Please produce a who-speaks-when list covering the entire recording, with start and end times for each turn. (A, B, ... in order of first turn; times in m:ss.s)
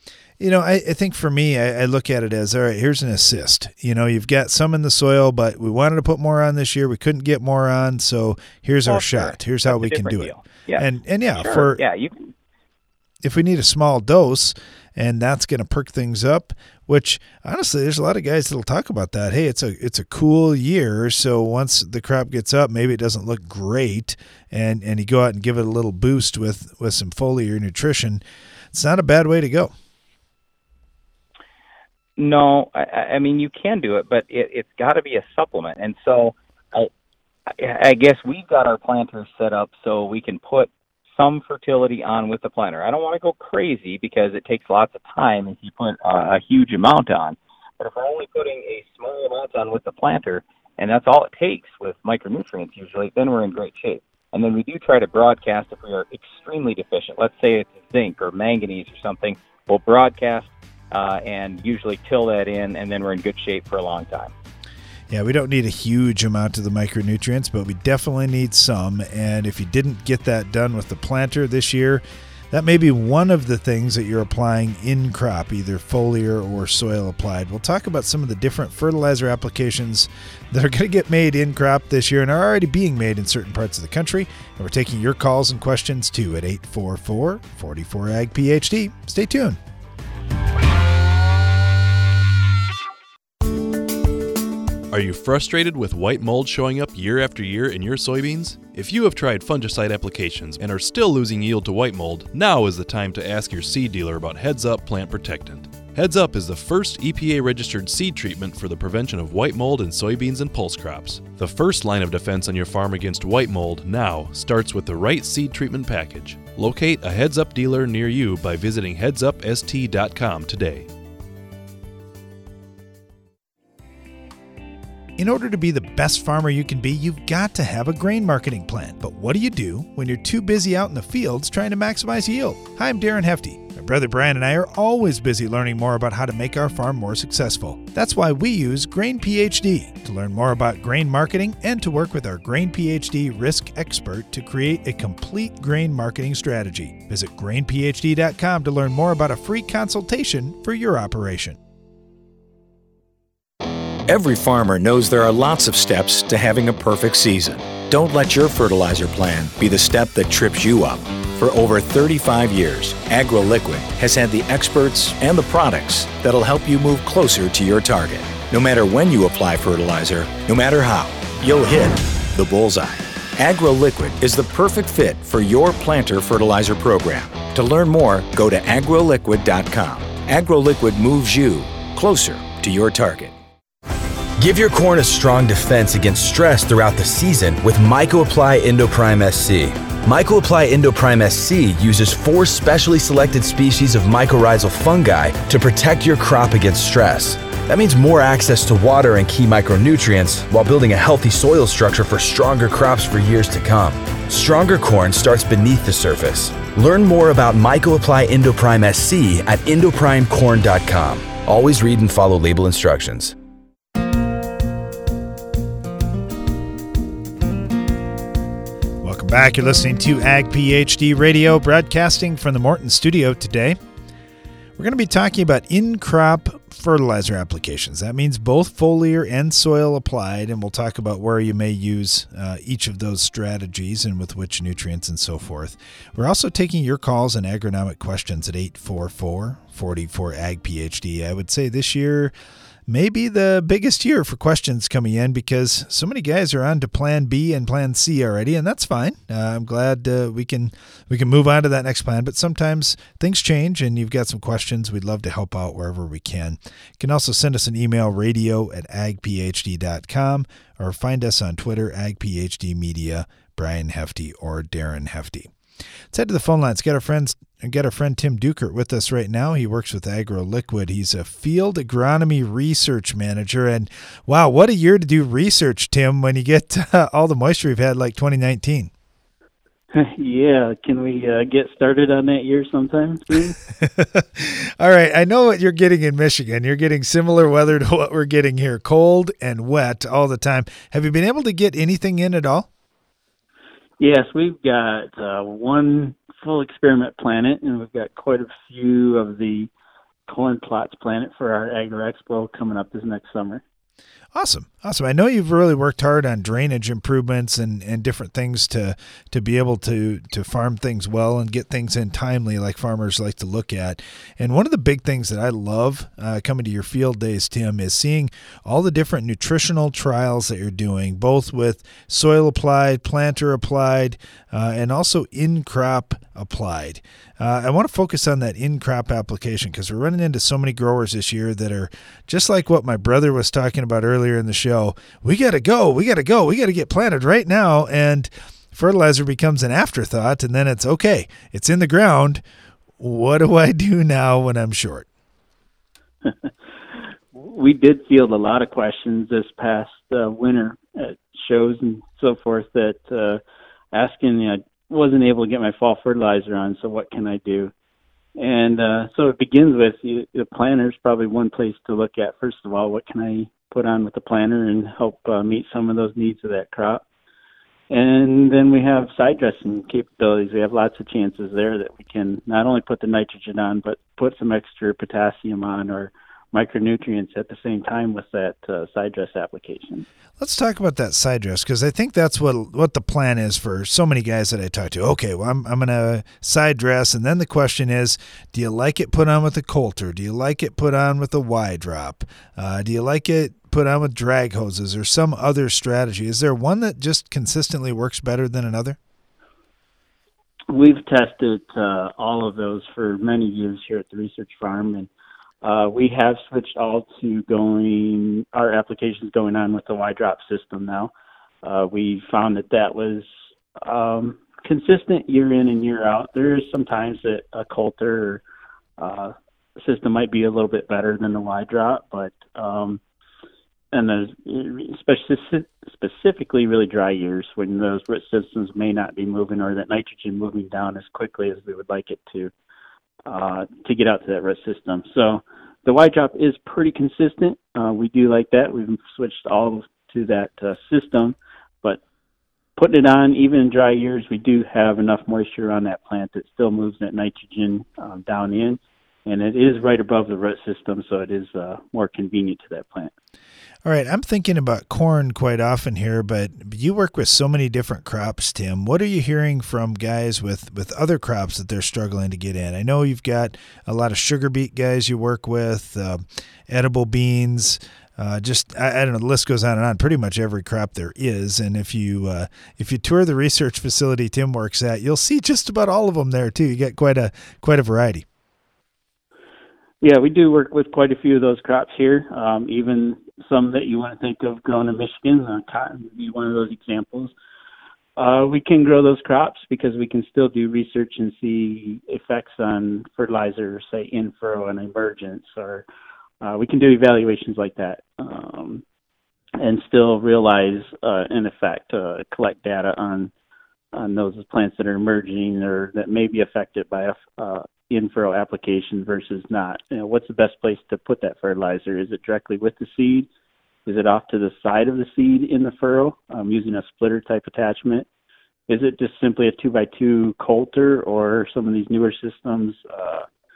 0:00.4-0:11.8 A
0:08.9-0:12.3 B
0:13.2-0:29.7 A
0:32.2-0:36.9 B
0:37.5-1:04.3 B
1:05.1-1:29.6 A
1:34.9-2:00.9 C
2:05.2-2:31.6 A
2:34.1-3:03.4 D
3:04.4-3:33.4 E
3:39.0-3:43.8 A
3:44.8-4:02.3 A
4:02.9-4:25.5 A
4:26.1-4:38.9 A
4:39.9-4:43.6 F
4:43.8-4:52.7 A
4:54.0-4:59.7 F
5:00.3-5:03.6 F
5:04.3-5:42.4 A
5:43.0-5:45.1 A
5:47.3-5:53.4 F
5:53.9-5:57.7 F
5:58.4-6:07.0 F
6:07.9-6:20.1 F
6:20.4-6:39.0 A
6:40.7-6:45.1 F
6:45.6-6:51.1 F
6:51.6-6:58.4 F
6:59.0-7:03.0 F
7:03.9-7:12.5 F
7:13.3-7:22.0 F
7:22.8-7:33.1 F
7:33.8-7:58.2 A
8:00.0-8:07.3 F
8:08.2-8:15.8 F
8:16.4-8:18.8 F
8:19.6-8:23.3 F
8:23.9-8:33.3 F
8:33.9-8:38.1 F
8:38.7-8:43.3 F